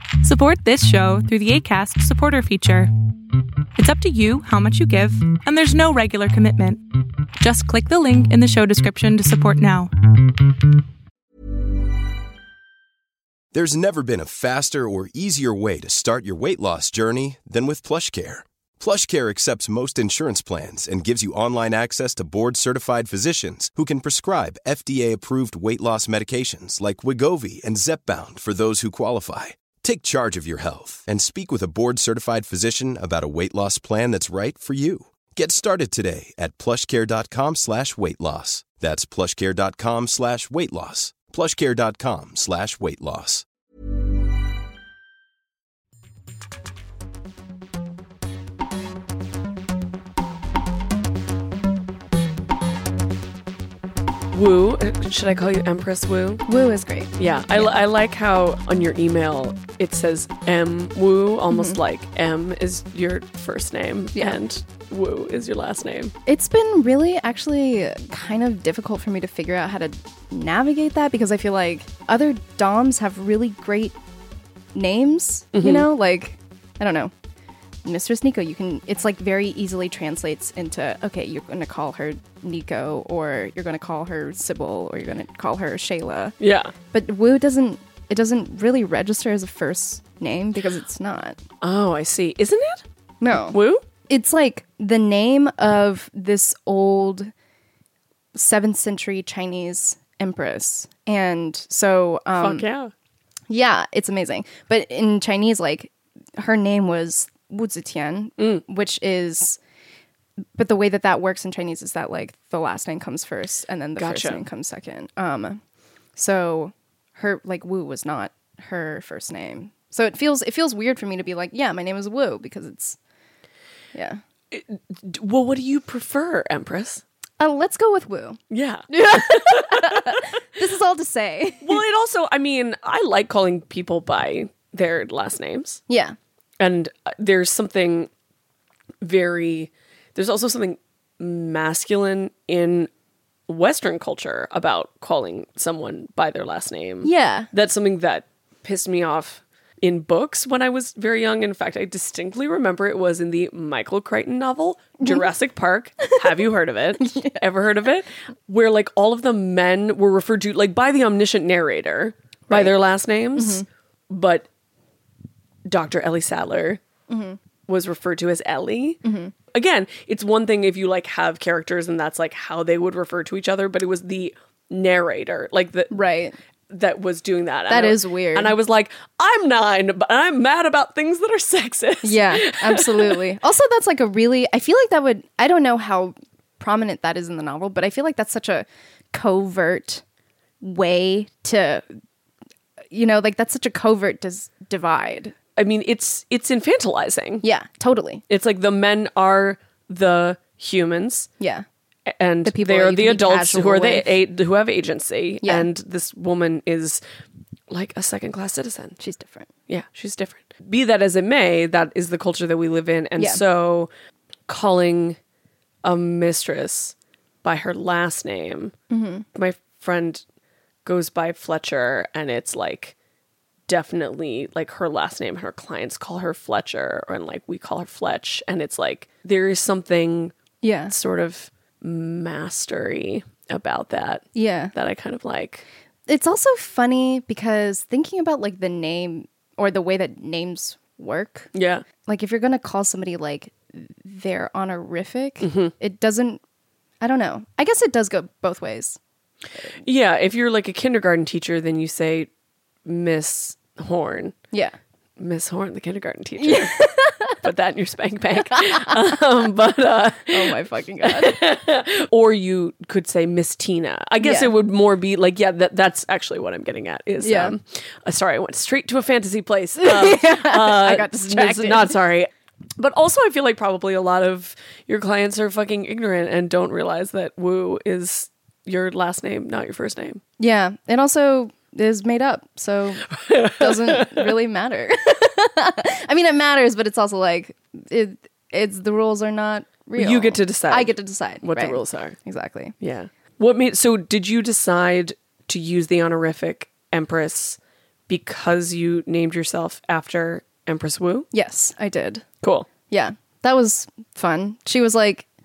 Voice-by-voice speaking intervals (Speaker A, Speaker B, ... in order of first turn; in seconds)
Speaker A: 0.2-2.9, 3.8-6.8, 7.4-9.9
Speaker B: 13.5-43.5
Speaker C: 54.3-56.4, 57.2-66.1, 75.5-75.9, 86.4-86.7, 91.6-92.8, 93.5-93.8, 102.4-102.9, 114.0-114.4, 124.5-127.0, 128.5-130.2, 131.6-135.8, 136.6-138.1, 139.0-142.9, 143.5-164.4, 165.7-166.8, 167.7-169.0, 169.5-176.0, 176.7-183.2, 195.6-197.4, 198.3-201.3, 202.1-207.0, 207.7-209.0, 209.7-213.9, 214.5-215.2, 215.8-218.7, 219.3-220.2, 220.8-222.9, 223.7-230.3, 230.9-235.7, 241.5-241.8, 245.4-245.7, 249.8-252.3, 252.8-254.3, 255.2-280.2, 283.1-284.3, 290.0-292.2, 292.8-301.3, 302.4-302.7
Speaker D: 56.5-57.7, 61.5-61.8, 66.2-74.0, 74.7-77.1, 77.8-86.3, 86.9-91.4, 93.2-93.6, 94.1-97.3, 98.3-102.6, 103.5-109.6, 110.6-115.6, 116.1-123.0, 123.9-124.2, 127.4-131.8, 135.9-136.2, 147.0-147.5, 157.0-157.4, 162.5-162.7, 163.3-163.7, 167.1-167.4, 169.0-169.3, 175.9-176.3, 177.7-178.5, 182.0-190.0, 190.6-191.8, 192.9-195.3, 197.4-198.2, 201.4-201.6, 202.4-204.1, 205.4-205.7, 209.0-209.5, 218.9-219.2, 230.6-230.9, 234.3-234.7, 236.1-241.5, 242.0-246.4, 247.0-249.0, 256.4-257.4, 258.5-258.9, 260.3-261.4, 264.2-264.5, 267.2-267.5, 269.8-271.9, 280.4-292.7, 301.3-302.2, 302.9-305.2